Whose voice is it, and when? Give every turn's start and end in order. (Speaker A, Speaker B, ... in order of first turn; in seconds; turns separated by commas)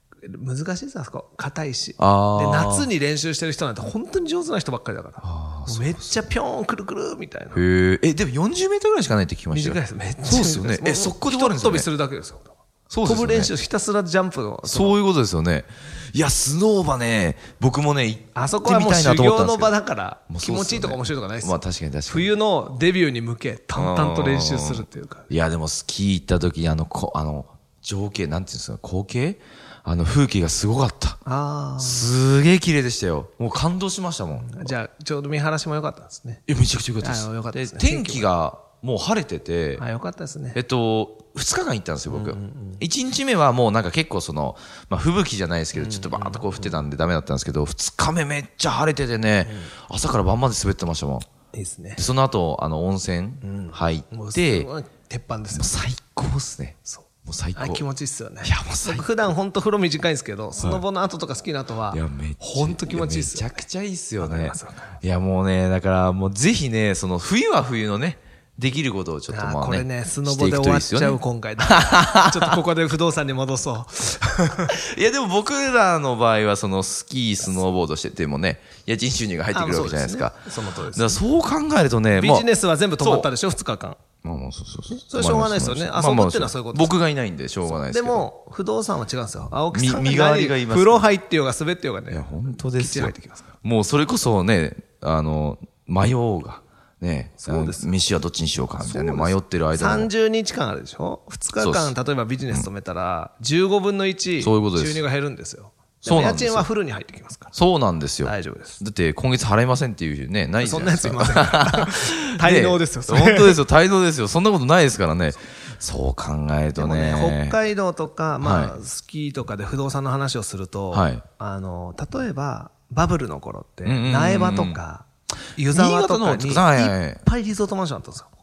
Speaker A: 0.2-7.6, Speaker B: 2.0-2.9, Speaker B: 5.2-6.2, Speaker B: 7.5-11.9, Speaker A: 9.5-15.0, Speaker B: 12.9-13.5, Speaker B: 14.6-19.8, Speaker A: 18.4-25.3, Speaker B: 20.3-22.4, Speaker B: 23.8-31.2, Speaker A: 31.2-32.2, Speaker B: 31.8-34.8, Speaker A: 34.4-36.5, Speaker B: 36.5-39.8, Speaker A: 37.0-38.3, Speaker A: 39.8-40.6, Speaker B: 40.5-51.3, Speaker A: 42.1-42.8, Speaker A: 45.7-46.8, Speaker A: 49.4-49.7, Speaker A: 51.5-52.0, Speaker B: 52.0-54.7, Speaker A: 53.4-55.7, Speaker B: 55.5-57.8, Speaker A: 56.8-63.6, Speaker B: 58.4-59.3, Speaker B: 61.9-72.6, Speaker A: 64.2-65.0, Speaker A: 69.3-74.8, Speaker B: 74.7-82.5, Speaker A: 79.5-81.2, Speaker A: 82.1-84.0, Speaker B: 83.0-83.3, Speaker B: 84.2-88.3, Speaker A: 84.9-87.0, Speaker A: 87.7-93.5, Speaker B: 89.7-91.1, Speaker B: 92.1-100.1, Speaker A: 97.4-97.9, Speaker A: 98.8-107.5, Speaker B: 101.6-101.9, Speaker B: 104.4-105.0, Speaker B: 106.0-106.7, Speaker B: 107.5-117.6, Speaker A: 108.2-108.8, Speaker A: 110.6-113.6, Speaker A: 116.8-128.3, Speaker B: 118.4-118.8, Speaker B: 120.9-121.2, Speaker B: 123.8-124.8, Speaker B: 125.7-127.2